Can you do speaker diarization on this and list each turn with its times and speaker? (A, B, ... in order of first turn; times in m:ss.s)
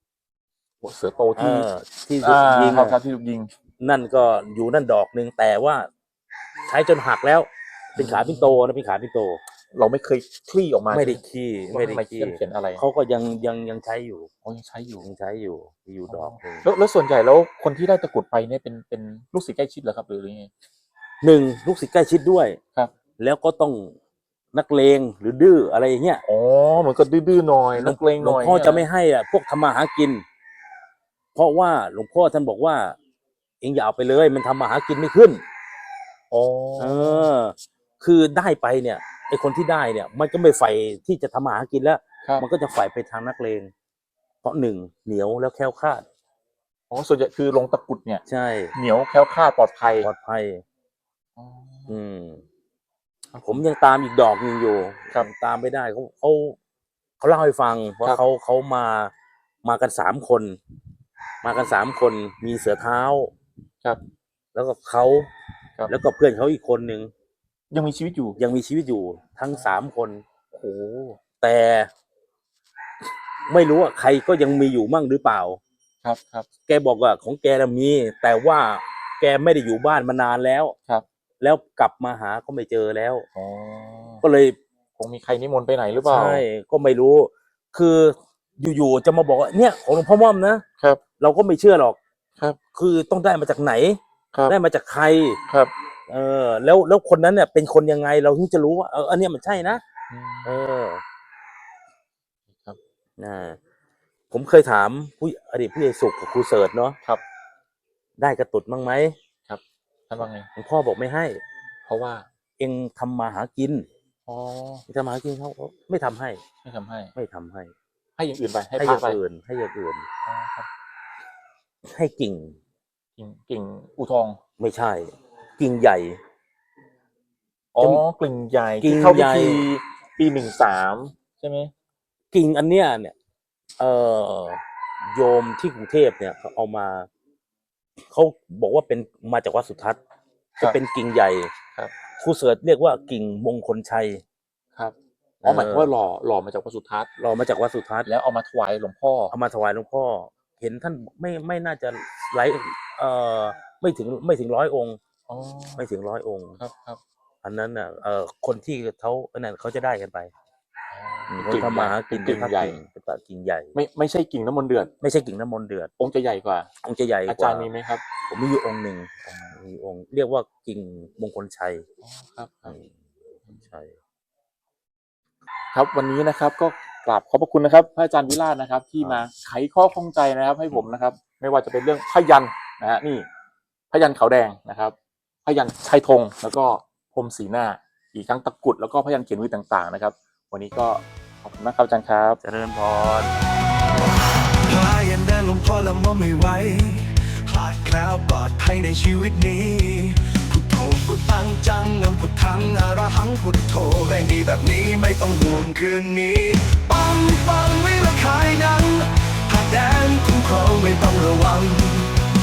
0:00.8-0:01.7 A
0:01.4-0:03.0 B
0:02.2-0:03.5 A
0:03.8-0:05.9 B
0:06.7-0:09.4 B
0:08.0-0:08.6 A
0:09.7-0:11.2 A
0:10.9-0:14.3 B
0:11.7-0:12.8 A
0:14.4-0:15.0 A
0:15.0-0:16.6 B
0:16.1-0:20.5 A
0:21.2-0:22.6 B
0:23.2-0:23.9 B
0:24.5-0:26.2 B
0:26.2-0:28.9 A
0:27.8-0:30.2 B
0:31.3-0:33.0 B
0:33.6-0:35.4 B
0:36.3-0:37.3 A
0:36.8-0:43.7 B
0:44.4-0:46.0 B
0:46.9-0:48.2 A
0:48.3-0:48.7 B
0:48.7-0:50.1 A
0:49.9-0:50.6 B
0:51.4-0:52.0 A
0:51.9-0:52.4 B
0:53.4-0:56.6 B
0:57.2-0:59.1 B
0:59.6-1:00.6 B
1:01.4-1:03.3 B
1:04.5-1:05.3 B
1:05.9-1:07.1 B
1:07.7-1:08.4 A
1:08.4-1:10.2 B
1:10.5-1:11.2 A
1:11.4-1:11.9 B
1:13.5-1:15.6 B
1:16.0-1:16.5 A
1:16.7-1:20.7 B
1:21.4-1:23.2 B
1:23.4-1:24.2 A
1:24.2-1:24.6 B
1:25.0-1:26.4 A
1:26.0-1:30.6 B
1:31.2-1:32.0 B
1:32.7-1:35.4 B
1:36.1-1:39.8 B
1:40.1-1:40.6 A
1:40.4-1:41.0 B
1:43.2-1:43.6 B
1:44.3-1:47.0 B
1:48.2-1:49.1 B
1:49.5-1:50.5 A
1:50.5-1:51.4 B
1:51.8-1:52.2 A
1:52.6-1:53.9 B
1:54.3-1:54.8 A
1:54.9-1:56.4 B
1:56.6-1:57.1 A
1:57.2-1:57.7 B
1:58.2-1:59.2 A
1:58.8-2:00.1 B
2:00.2-2:00.7 A
2:01.8-2:02.6 B
2:03.2-2:04.4 A
2:04.6-2:06.2 B
2:07.7-2:11.7 A
2:08.8-2:09.7 B
2:12.3-2:13.1 B
2:13.8-2:17.1 B
2:18.1-2:20.0 B
2:20.6-2:21.5 B
2:22.2-2:24.2 B
2:24.8-2:27.1 A
2:25.4-2:25.9 B
2:27.2-2:28.1 B
2:28.1-2:29.3 A
2:29.3-2:35.0 B
2:35.3-2:35.8 A
2:35.8-2:36.6 B
2:36.6-2:37.0 A
2:37.4-2:40.3 B
2:40.9-2:42.8 A
2:41.3-2:43.7 B
2:43.7-2:44.9 A
2:45.0-2:45.9 B
2:46.0-2:46.7 A
2:46.8-2:47.7 B
2:47.3-2:48.0 A
2:48.3-2:51.8 B
2:52.0-2:52.8 A
2:53.5-2:54.0 B
2:55.7-3:03.3 A
3:03.9-3:04.9 A
3:05.4-3:12.4 A
3:12.4-3:13.3 B
3:14.6-3:32.2 C